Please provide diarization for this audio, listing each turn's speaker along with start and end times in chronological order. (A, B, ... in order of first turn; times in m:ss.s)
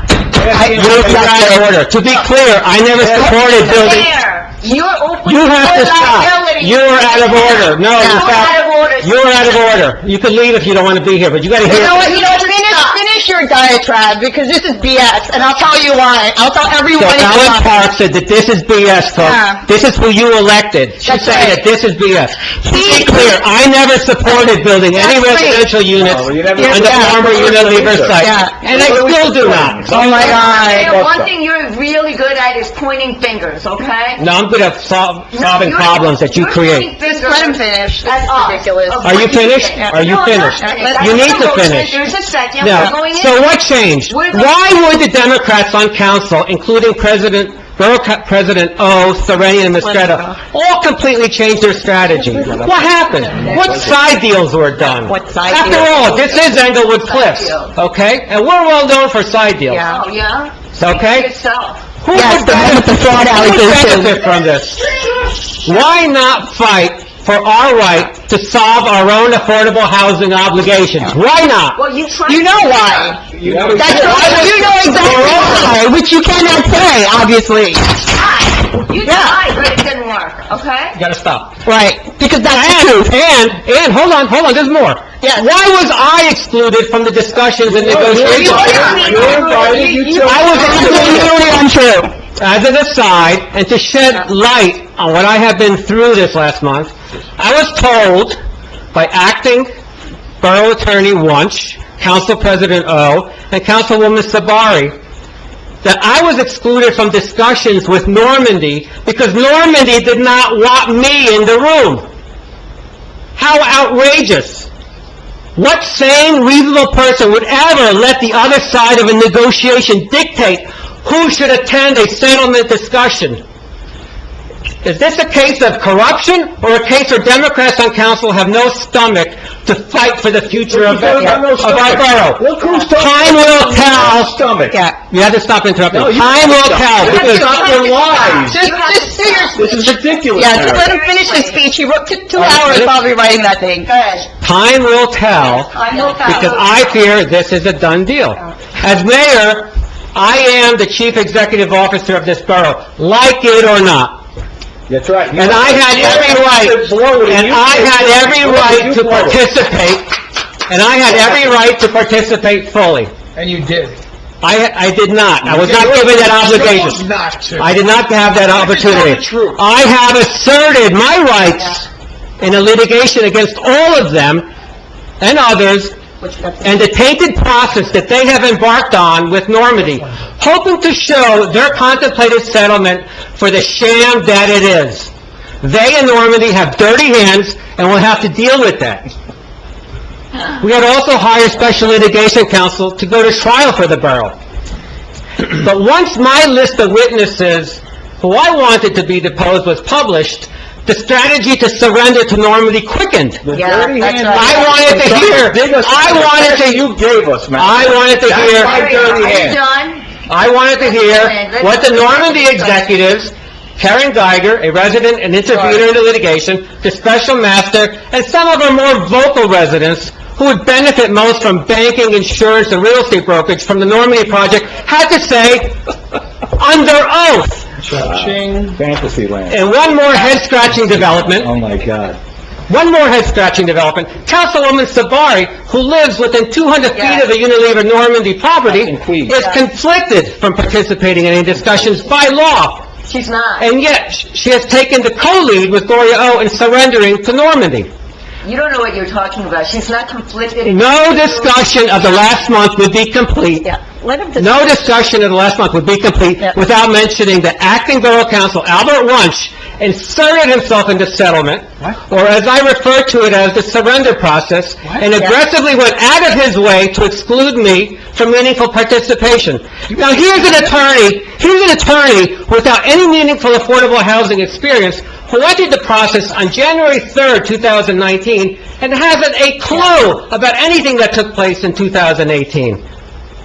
0:00.3-0:01.3 A
0:00.5-0:01.7 B
0:00.6-0:04.1 C
0:03.0-0:03.4 A
0:03.4-0:09.4 D
0:05.2-0:12.2 C
0:08.0-0:08.2 B
0:11.6-0:17.9 B
0:11.7-0:13.0 D
0:16.9-0:30.0 C
0:19.2-0:19.6 B
0:21.0-0:21.6 B
0:22.7-0:23.4 B
0:24.9-0:25.7 B
0:25.9-0:31.3 A
0:26.5-0:27.3 B
0:28.1-0:28.6 B
0:29.8-0:31.0 B
0:30.1-0:34.2 D
0:34.2-0:36.9 C
0:35.3-0:43.5 D
0:37.0-0:39.2 B
0:39.0-0:42.0 C
0:40.5-0:41.7 B
0:42.6-0:59.8 C
0:44.1-0:44.6 D
0:49.8-0:50.4 B
0:52.3-0:53.9 A
0:55.0-0:56.2 B
0:55.5-0:57.7 D
0:59.7-1:00.0 B
0:59.8-1:01.9 D
1:00.7-1:01.3 C
1:02.0-1:04.8 C
1:02.1-1:04.2 B
1:04.8-1:05.1 D
1:05.6-1:11.8 C
1:11.8-1:13.2 D
1:12.3-1:13.2 B
1:13.4-1:15.5 A
1:13.6-1:14.4 E
1:13.7-1:18.0 B
1:13.9-1:15.7 C
1:14.0-1:15.0 D
1:18.1-1:21.0 D
1:19.0-1:19.4 B
1:21.0-1:21.5 C
1:21.6-1:23.1 B
1:22.5-1:29.1 C
1:25.2-1:25.5 B
1:27.7-1:31.3 A
1:28.1-1:31.0 D
1:28.6-1:30.1 E
1:30.2-1:31.3 C
1:30.2-1:32.1 B
1:32.4-1:38.4 C
1:38.9-1:39.7 C
1:40.4-1:44.9 C
1:45.8-1:52.0 C
1:53.4-1:54.7 C
1:55.6-2:03.4 C
2:04.8-2:14.3 C
2:10.7-2:14.8 A
2:14.7-2:15.0 B
2:15.1-2:17.7 C
2:15.9-2:18.6 A
2:17.0-2:21.6 D
2:18.4-2:23.9 B
2:19.6-2:20.9 A
2:23.8-2:24.3 D
2:24.4-2:34.2 C
2:25.4-2:26.9 D
2:25.6-2:26.7 B
2:34.9-2:39.4 A
2:35.3-2:40.1 C
2:40.7-2:43.1 C
2:43.4-2:44.0 E
2:44.4-2:51.9 C
2:45.4-2:47.7 E
2:48.4-2:49.6 E
2:52.4-2:54.4 C
2:55.2-2:55.9 C
2:56.2-2:56.6 B
2:56.6-3:05.1 C
3:05.6-3:09.0 C
3:10.6-3:14.3 C
3:15.4-3:23.4 C
3:23.4-3:29.6 A
3:23.5-3:25.4 B
3:24.3-3:26.9 C
3:27.6-3:28.8 C
3:28.3-3:30.0 D
3:30.3-3:45.7 C
3:30.8-3:32.9 D
3:46.6-3:47.6 C
3:47.8-3:48.4 E
3:47.9-3:49.6 A
3:49.5-3:51.5 C
3:50.8-3:52.2 A
3:52.7-4:02.8 C
3:56.9-3:57.3 D
3:58.7-3:59.4 A
4:03.0-4:03.7 D
4:03.6-4:07.9 C
4:08.4-4:12.3 D
4:10.6-4:13.7 C
4:13.6-4:14.9 B
4:14.4-4:42.8 C